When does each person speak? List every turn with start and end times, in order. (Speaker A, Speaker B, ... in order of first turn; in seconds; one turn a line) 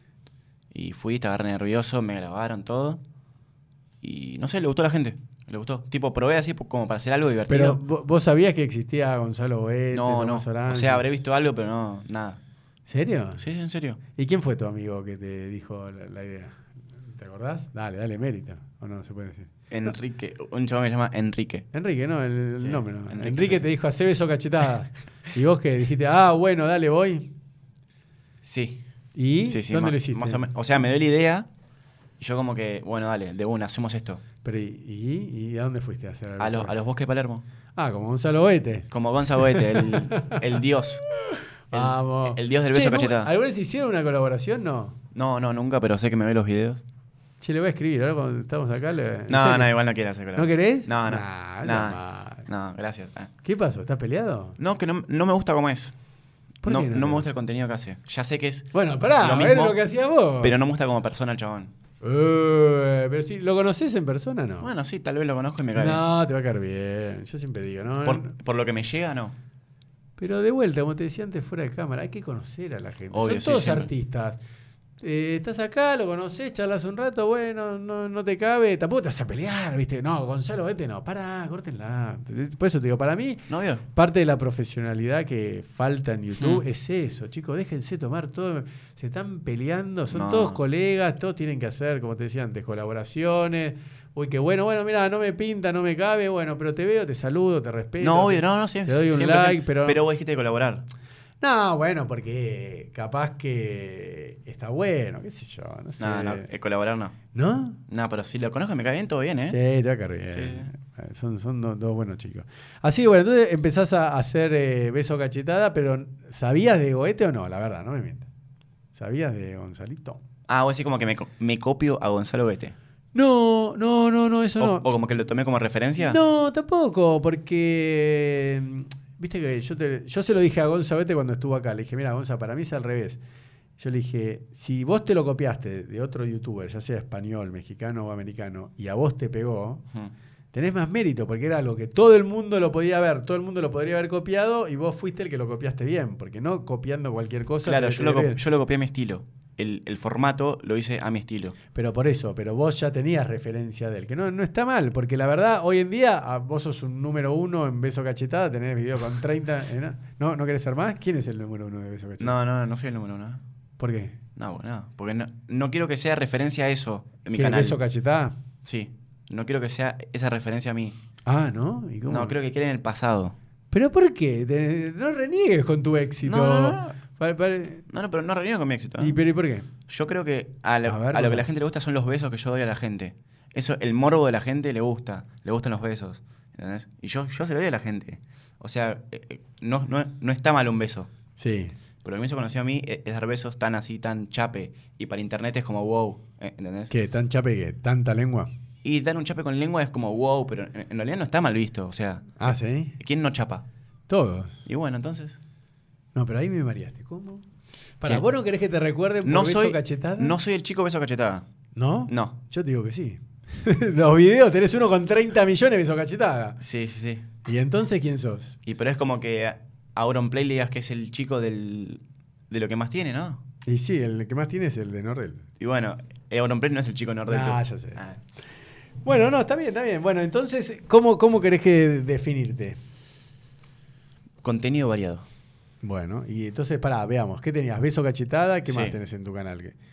Speaker A: 0.7-3.0
Speaker A: 4.0-7.8
Speaker B: 7.5-11.1
Speaker A: 9.9-12.4
Speaker B: 12.9-13.4
Speaker A: 13.4-14.0
Speaker B: 14.2-19.5
Speaker A: 19.7-21.7
Speaker B: 21.7-27.3
Speaker A: 22.6-23.7
Speaker A: 28.4-28.8
Speaker B: 29.1-30.5
Speaker A: 29.5-31.5
Speaker A: 32.2-34.2
Speaker B: 34.4-36.8
Speaker A: 36.4-37.4
Speaker B: 37.8-38.9
Speaker A: 38.9-41.0
Speaker B: 39.4-40.4
Speaker B: 41.3-45.0
Speaker A: 41.7-43.3
Speaker A: 45.1-46.8
Speaker B: 47.4-49.7
Speaker A: 49.3-53.3
Speaker B: 50.4-52.5
Speaker B: 53.4-54.6
Speaker A: 54.6-55.9
Speaker B: 56.6-57.3
Speaker A: 56.6-59.8
Speaker B: 58.7-60.5
Speaker A: 60.4-61.7
Speaker B: 62.0-64.7
Speaker A: 64.6-66.0
Speaker B: 65.8-68.3
Speaker A: 68.0-69.4
Speaker B: 70.2-74.4
Speaker A: 73.1-73.9
Speaker B: 75.0-100.0
Speaker A: 83.5-83.8
Speaker A: 86.4-86.6
Speaker A: 90.1-90.6
Speaker A: 98.0-100.9
Speaker B: 101.4-106.5
Speaker A: 106.0-107.2
Speaker B: 107.3-107.8
Speaker A: 107.9-109.6
Speaker B: 109.5-118.3
Speaker A: 110.3-110.7
Speaker B: 118.9-120.2
Speaker A: 120.5-122.8
Speaker B: 123.1-124.9
Speaker A: 124.6-126.2
Speaker B: 126.0-133.2
Speaker B: 133.8-139.8
Speaker B: 140.5-148.4
Speaker A: 147.6-151.6
Speaker B: 151.7-162.3
Speaker A: 162.2-163.4
Speaker B: 163.8-164.2
Speaker A: 164.4-167.8
Speaker B: 167.3-168.4
Speaker A: 168.6-171.0
Speaker B: 171.3-172.3
Speaker A: 172.1-173.4
Speaker B: 173.7-177.9
Speaker A: 176.2-177.0
Speaker A: 177.9-179.2
Speaker B: 179.0-179.7
Speaker A: 179.9-191.1
Speaker B: 180.9-181.5
Speaker B: 191.4-191.8
Speaker A: 192.0-196.9
Speaker B: 196.9-198.5
Speaker A: 198.8-203.6
Speaker B: 202.4-203.0
Speaker B: 204.1-204.6
Speaker A: 204.7-205.4
Speaker B: 206.2-207.4
Speaker B: 208.0-210.4
Speaker A: 209.2-211.5
Speaker B: 211.8-216.6
Speaker A: 212.1-212.3
Speaker A: 216.6-217.3
Speaker B: 217.4-218.6
Speaker A: 218.7-223.4
Speaker B: 223.7-225.4
Speaker A: 225.6-228.2
Speaker B: 227.3-228.0
Speaker B: 229.0-232.8
Speaker A: 234.4-235.3
Speaker B: 235.8-239.8
Speaker A: 238.7-238.9